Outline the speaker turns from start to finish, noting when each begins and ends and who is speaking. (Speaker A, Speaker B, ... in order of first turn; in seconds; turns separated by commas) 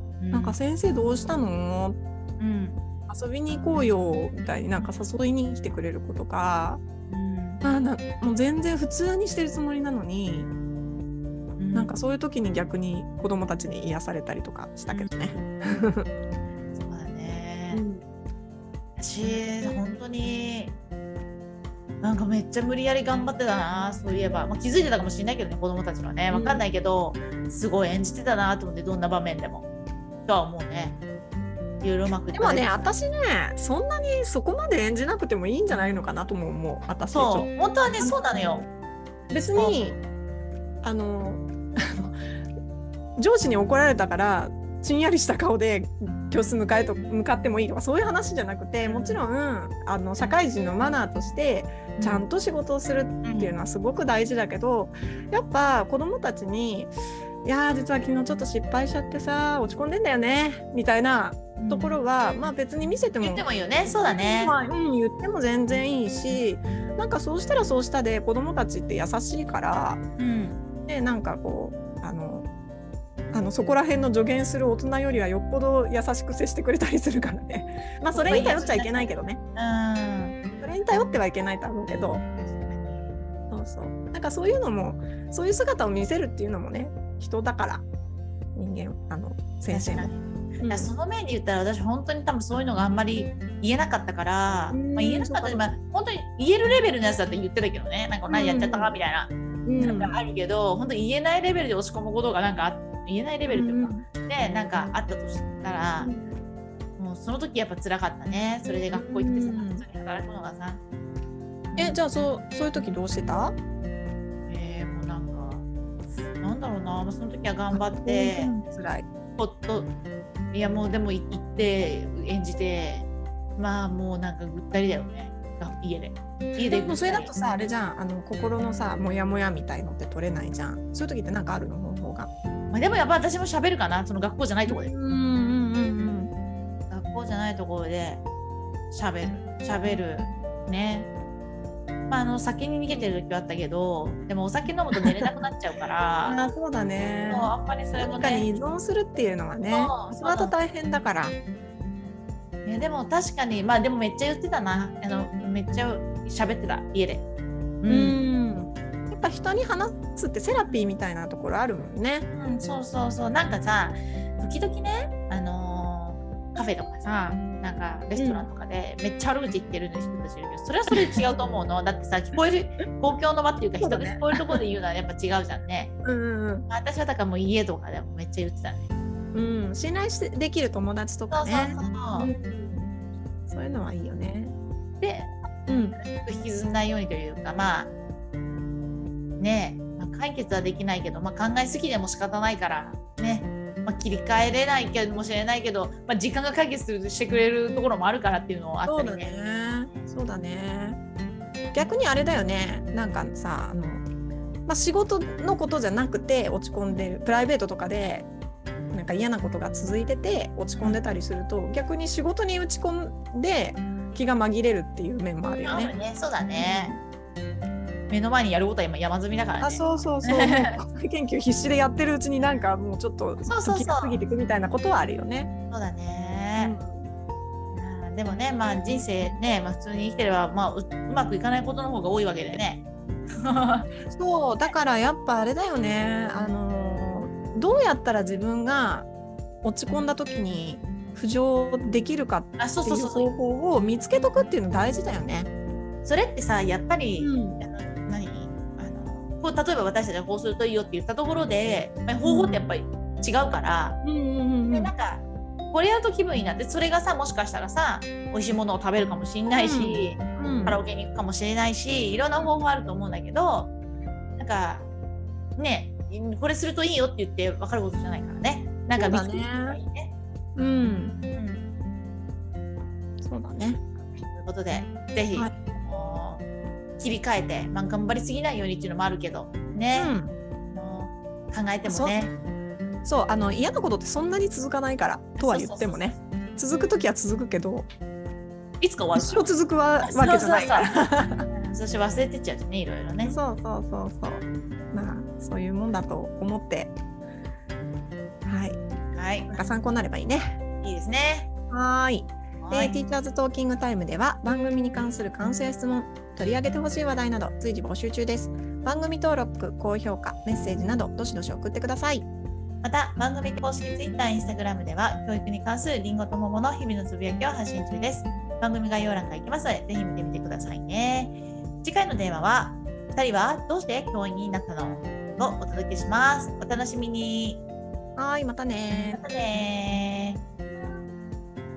Speaker A: 0.2-0.6, Speaker B: 0.3-2.0, Speaker A: 2.4-2.8, Speaker B: 3.1-6.8, Speaker A: 3.7-4.0, Speaker A: 4.8-5.1, Speaker A: 7.1-7.6, Speaker B: 7.6-10.5, Speaker A: 11.6-11.9, Speaker B: 11.7-16.1, Speaker A: 14.9-15.4, Speaker A: 16.7-17.8, Speaker B: 17.7-18.0, Speaker A: 19.0-20.7, Speaker A: 22.0-29.7, Speaker B: 26.3-26.6, Speaker A: 30.3-31.0, Speaker A: 31.8-32.8, Speaker B: 32.3-38.7, Speaker A: 37.1-38.6, Speaker B: 39.3-40.0, Speaker A: 39.4-39.8, Speaker B: 40.8-42.2, Speaker B: 43.2-70.0, Speaker A: 48.8-49.2, Speaker A: 52.0-52.2, Speaker A: 53.2-53.5, Speaker A: 61.6-61.9, Speaker A: 63.2-64.5, Speaker A: 70.2-70.6, Speaker B: 70.9-72.5, Speaker B: 73.3-79.4, Speaker A: 78.1-80.4, Speaker B: 80.6-82.2, Speaker A: 82.4-83.2, Speaker B: 83.5-87.8, Speaker B: 88.5-90.1, Speaker A: 89.7-106.1, Speaker B: 90.6-90.9, Speaker B: 94.7-95.7, Speaker B: 98.3-99.0, Speaker B: 99.7-100.1, Speaker B: 103.5-104.1, Speaker B: 106.0-106.3, Speaker A: 107.0-110.8, Speaker B: 108.9-109.9, Speaker A: 111.7-112.0, Speaker B: 111.8-113.6, Speaker A: 114.5-115.7, Speaker A: 116.4-118.5, Speaker B: 117.7-119.0, Speaker A: 119.4-119.9, Speaker A: 120.5-123.1, Speaker A: 123.6-127.3, Speaker B: 126.6-132.3, Speaker A: 132.7-134.9, Speaker B: 134.7-136.3, Speaker A: 136.9-138.2, Speaker A: 138.9-141.1, Speaker A: 142.1-146.4, Speaker B: 142.9-143.1, Speaker B: 146.2-151.3, Speaker A: 147.3-148.5, Speaker A: 149.7-150.6, Speaker A: 152.7-157.2, Speaker A: 157.8-158.2, Speaker B: 157.9-162.3, Speaker A: 162.3-175.9, Speaker B: 168.2-168.5, Speaker B: 170.9-171.3, Speaker B: 173.8-174.6, Speaker B: 176.0-176.7, Speaker A: 176.7-178.8, Speaker B: 179.3-182.9, Speaker A: 181.3-182.3, Speaker B: 183.5-184.6, Speaker A: 185.0-185.3, Speaker B: 185.7-186.0, Speaker A: 186.0-187.9, Speaker A: 189.4-199.3, Speaker B: 198.9-201.0, Speaker B: 201.7-204.1, Speaker B: 204.7-208.3, Speaker B: 208.9-215.9, Speaker A: 210.8-211.0, Speaker A: 215.6-216.9, Speaker B: 216.6-217.0, Speaker A: 218.1-220.8, Speaker B: 219.6-225.5, Speaker A: 222.4-222.7, Speaker A: 223.5-224.2, Speaker A: 225.7-226.8, Speaker B: 226.6-227.0, Speaker A: 227.7-232.8, Speaker A: 233.4-233.9, Speaker B: 234.1-239.1, Speaker B: 239.6-245.5, Speaker A: 242.6-243.4, Speaker A: 246.1-254.0, Speaker B: 247.2-247.6, Speaker B: 252.2-252.7, Speaker B: 254.0-254.9, Speaker A: 254.7-263.7, Speaker B: 259.5-260.8, Speaker A: 264.4-264.9, Speaker A: 265.6-270.1, Speaker B: 269.0-269.8, Speaker B: 270.6-271.1, Speaker A: 271.4-271.7, Speaker B: 273.2-273.8, Speaker A: 274.3-276.4, Speaker A: 277.0-280.1, Speaker B: 279.9-280.3, Speaker A: 280.7-282.3, Speaker B: 281.8-282.3, Speaker B: 283.1-287.9, Speaker A: 285.4-286.2, Speaker A: 288.8-289.4, Speaker B: 289.1-291.5, Speaker A: 290.0-290.9, Speaker A: 291.5-293.4, Speaker B: 293.2-296.9, Speaker B: 298.4-298.8, Speaker A: 299.1-299.6, Speaker B: 299.5-300.6, Speaker A: 300.8-301.5, Speaker B: 301.7-312.3, Speaker A: 302.6-303.0, Speaker A: 312.8-327.6, Speaker B: 328.2-329.2, Speaker A: 329.1-330.4